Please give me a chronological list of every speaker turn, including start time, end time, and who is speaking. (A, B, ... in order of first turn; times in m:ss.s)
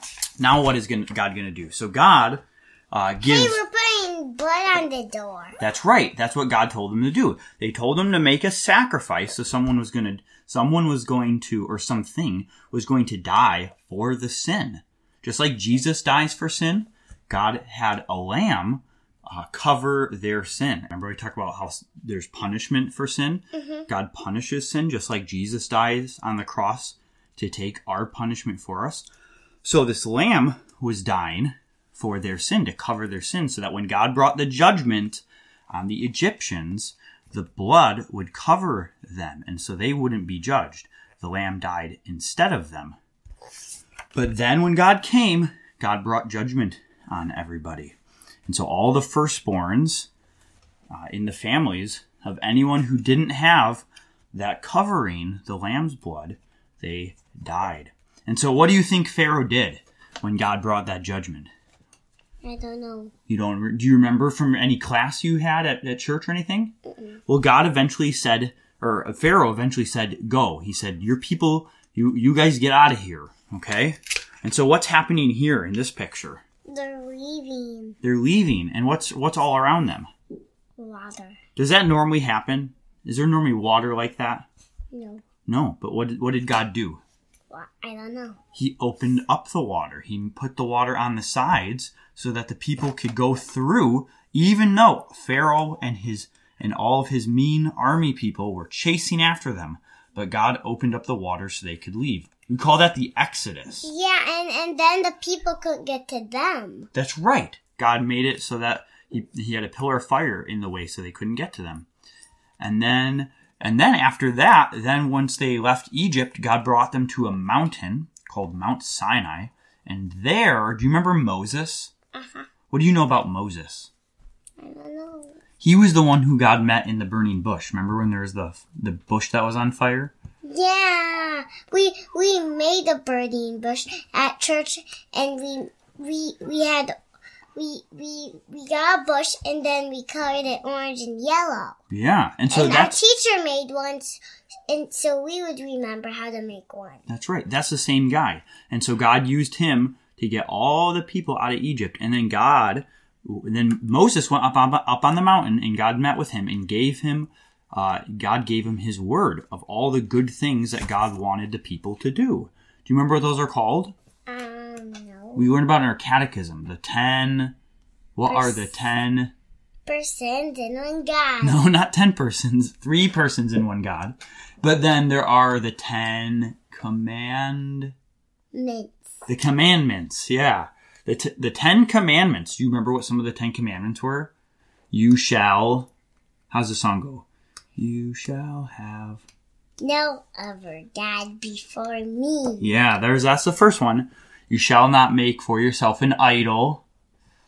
0:00.4-0:03.6 A
0:03.2-0:05.6 B
0:05.6-0:29.1 A
0:23.5-0:23.9 B
0:29.6-0:43.0 A
0:44.1-0:48.0 A
0:48.5-0:50.1 A
0:50.9-1:01.5 A
1:02.4-1:03.1 B
1:03.3-1:06.8 A
1:07.3-1:16.4 A
1:16.7-1:18.0 B
1:18.0-1:20.1 A
1:20.8-1:21.4 B
1:21.6-1:24.5 A
1:24.9-1:25.2 B
1:25.5-1:27.0 A
1:27.5-1:28.4 B
1:28.6-1:43.9 A
1:43.8-1:46.9 B
1:46.9-1:51.9 A
1:52.6-2:01.9 A
2:02.1-2:02.5 B
2:02.7-2:03.9 A
2:04.6-2:05.4 B
2:05.6-2:10.1 A
2:10.4-2:16.9 B
2:17.6-2:21.8 B
2:21.9-2:23.0 A
2:22.5-2:27.1 B
2:27.1-2:43.9 A
2:44.3-2:45.5 B
2:45.4-2:47.6 A
2:48.2-2:49.3 A
2:48.3-2:48.7 B
2:49.9-2:51.6 B
2:51.4-2:57.9 A
2:58.5-2:59.1 B
2:59.3-3:04.3 A
3:04.9-3:05.9 A
3:06.5-3:07.3 A
3:07.8-3:09.2 A
3:09.8-3:12.7 B
3:12.6-3:16.8 A